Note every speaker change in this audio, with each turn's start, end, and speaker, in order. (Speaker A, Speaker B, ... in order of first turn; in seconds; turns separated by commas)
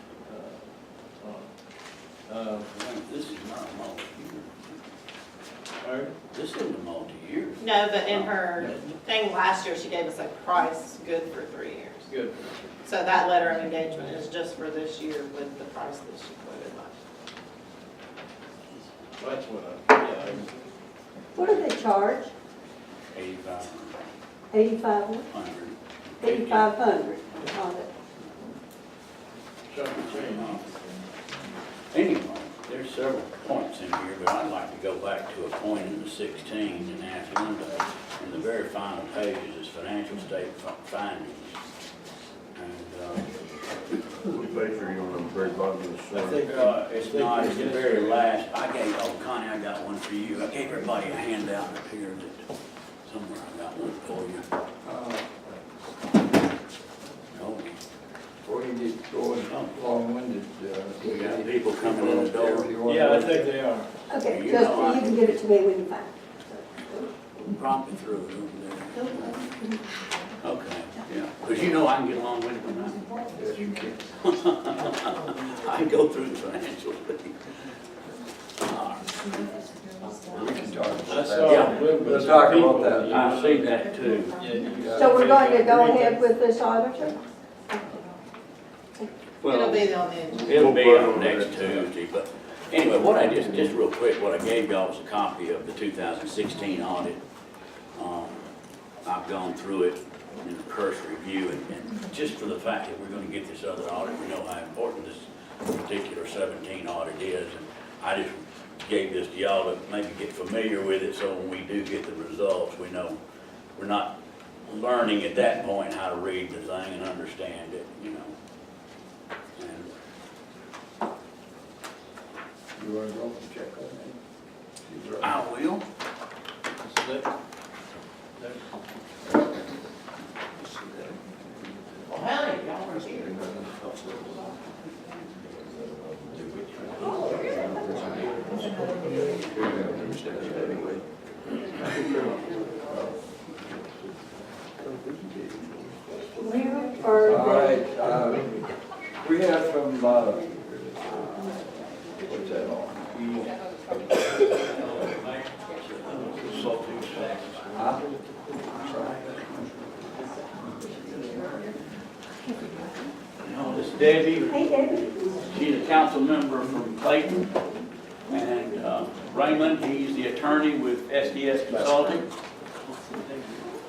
Speaker A: 0.2-1.5, Speaker A: 2.3-2.7, Speaker B: 2.7-4.7, Speaker A: 5.8-6.1, Speaker B: 6.3-8.7, Speaker C: 7.6-12.1, Speaker A: 8.6-8.9, Speaker A: 12.1-12.7, Speaker C: 12.8-16.9, Speaker A: 19.2-20.5, Speaker D: 21.3-22.3, Speaker B: 23.1-24.0, Speaker D: 24.5-25.3, Speaker B: 25.3-26.7, Speaker D: 26.2-27.9, Speaker A: 29.7-30.6, Speaker B: 29.8-30.6, Speaker B: 31.9-41.6, Speaker B: 42.5-43.3, Speaker E: 44.2-46.5, Speaker A: 46.1-48.3, Speaker B: 46.5-52.5, Speaker B: 53.0-54.5, Speaker F: 54.8-55.3, Speaker B: 57.3-57.7, Speaker F: 58.5-63.5, Speaker B: 59.5-59.8, Speaker B: 61.0-63.2, Speaker A: 62.8-63.9, Speaker D: 64.1-67.1, Speaker B: 64.2-65.4, Speaker B: 67.4-69.1, Speaker D: 68.9-69.8, Speaker B: 70.4-73.1, Speaker F: 73.3-74.0, Speaker B: 74.2-77.4, Speaker B: 78.6-79.1, Speaker F: 80.3-83.3, Speaker A: 81.0-83.8, Speaker B: 81.4-81.8, Speaker B: 83.1-84.4, Speaker A: 84.4-86.2, Speaker F: 84.8-85.1, Speaker D: 84.9-87.2, Speaker B: 89.4-97.2, Speaker C: 89.4-90.5, Speaker E: 90.5-91.9, Speaker B: 98.0-98.5, Speaker B: 99.0-113.2, Speaker B: 113.8-118.3, Speaker B: 119.6-119.9, Speaker F: 122.8-124.2, Speaker F: 124.8-125.4, Speaker B: 125.2-125.8, Speaker A: 126.8-127.3, Speaker A: 128.4-128.6, Speaker A: 130.8-131.1, Speaker B: 132.1-134.7, Speaker E: 136.0-136.4, Speaker F: 139.6-140.0, Speaker F: 142.8-143.1, Speaker F: 144.8-145.9, Speaker D: 146.3-147.8, Speaker F: 147.2-148.5, Speaker F: 149.2-151.6, Speaker F: 152.2-153.5, Speaker B: 155.0-155.3, Speaker A: 156.1-157.4, Speaker F: 157.7-158.1, Speaker F: 158.8-159.8, Speaker B: 163.4-164.8, Speaker D: 164.5-165.5, Speaker B: 165.4-167.6, Speaker B: 168.3-172.2